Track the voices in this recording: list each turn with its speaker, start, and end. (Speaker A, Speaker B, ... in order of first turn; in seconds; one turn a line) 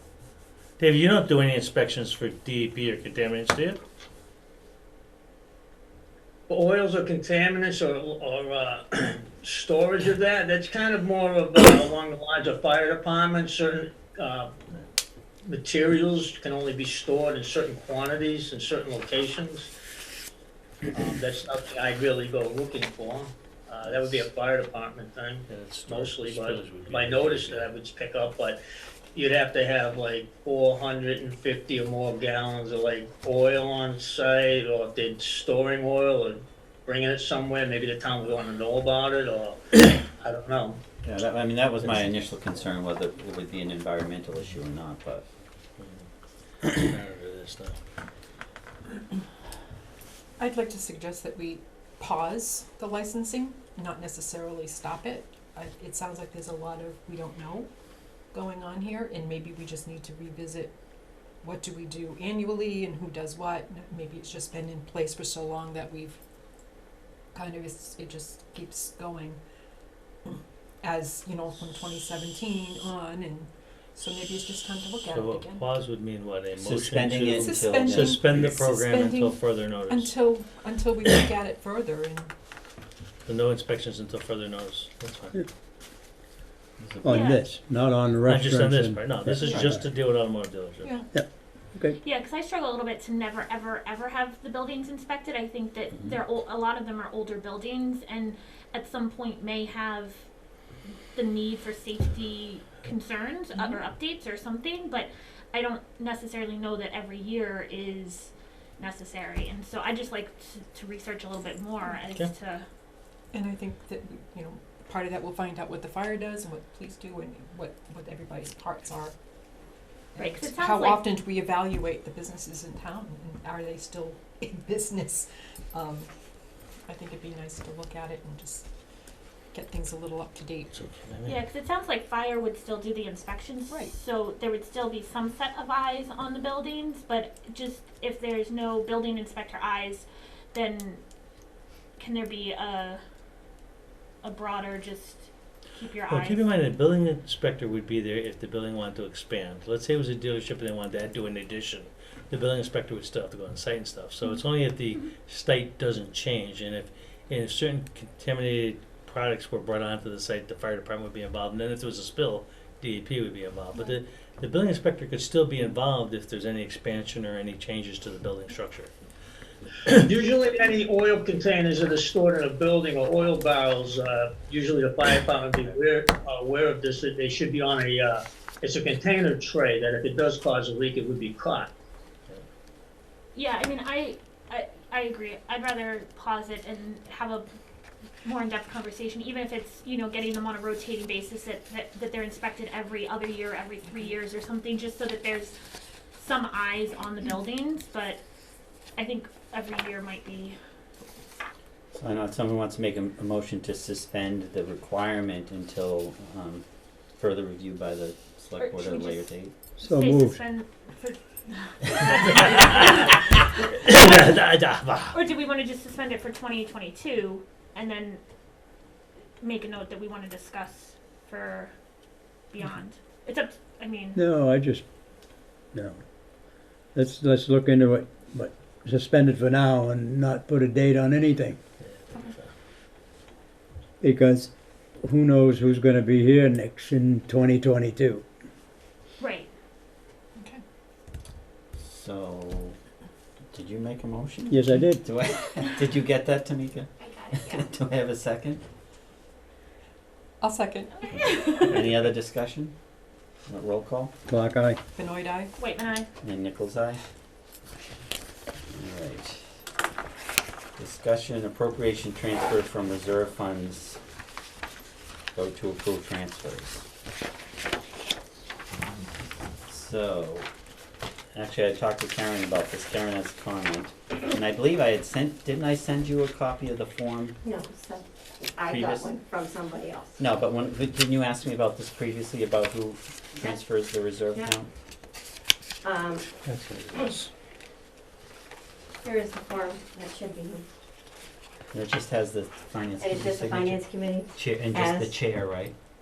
Speaker A: 0.8-3.8
Speaker B: 6.5-14.5
Speaker B: 15.4-19.7
Speaker B: 20.9-28.6
Speaker A: 23.8-24.3
Speaker A: 25.5-27.7
Speaker B: 29.1-40.8
Speaker C: 41.0-45.2
Speaker A: 45.8-46.1
Speaker A: 46.6-47.8
Speaker D: 50.4-57.7
Speaker D: 58.3-60.7
Speaker D: 61.4-66.2
Speaker D: 67.3-69.4
Speaker D: 70.2-75.7
Speaker A: 75.0-80.2
Speaker C: 76.5-78.4
Speaker D: 77.3-82.3
Speaker A: 83.2-85.4
Speaker C: 86.8-87.2
Speaker E: 87.0-89.8
Speaker F: 87.1-87.5
Speaker A: 88.2-90.9
Speaker D: 90.8-91.1
Speaker E: 91.1-92.0
Speaker F: 91.9-100.3
Speaker F: 101.1-112.7
Speaker D: 103.5-103.8
Speaker D: 113.3-119.1
Speaker D: 120.1-126.1
Speaker F: 120.2-121.0
Speaker D: 126.8-128.7
Speaker D: 129.5-130.8
Speaker A: 130.7-131.4
Speaker F: 131.2-141.0
Speaker F: 142.0-143.0
Speaker F: 144.2-146.5
Speaker A: 146.1-168.9
Speaker B: 170.0-181.7
Speaker F: 183.3-187.5
Speaker F: 188.2-195.5
Speaker F: 196.1-198.2
Speaker F: 199.0-200.6
Speaker C: 201.9-206.6
Speaker C: 207.2-209.5
Speaker F: 208.6-213.3
Speaker E: 209.8-210.4
Speaker A: 212.6-215.2
Speaker F: 215.1-218.2
Speaker F: 219.4-221.7
Speaker F: 222.5-224.2
Speaker E: 224.1-224.8
Speaker E: 225.7-231.6
Speaker A: 231.8-232.5
Speaker E: 234.0-238.2
Speaker F: 239.2-239.5
Speaker D: 240.4-240.6
Speaker C: 241.8-242.8
Speaker C: 243.5-248.6
Speaker E: 244.5-245.0
Speaker D: 250.4-251.6
Speaker F: 251.0-251.7
Speaker C: 251.6-252.7
Speaker C: 253.4-254.1
Speaker E: 254.3-254.8
Speaker D: 254.9-255.5
Speaker F: 255.6-256.1
Speaker C: 256.2-257.0
Speaker C: 258.7-259.5
Speaker C: 260.8-264.0
Speaker C: 265.3-266.9
Speaker C: 269.7-270.5
Speaker C: 271.3-277.4
Speaker G: 277.4-280.2
Speaker C: 278.6-279.1
Speaker C: 280.2-284.7
Speaker G: 285.8-286.2
Speaker A: 286.4-287.3
Speaker G: 289.0-290.6
Speaker C: 291.7-295.7
Speaker G: 293.0-295.1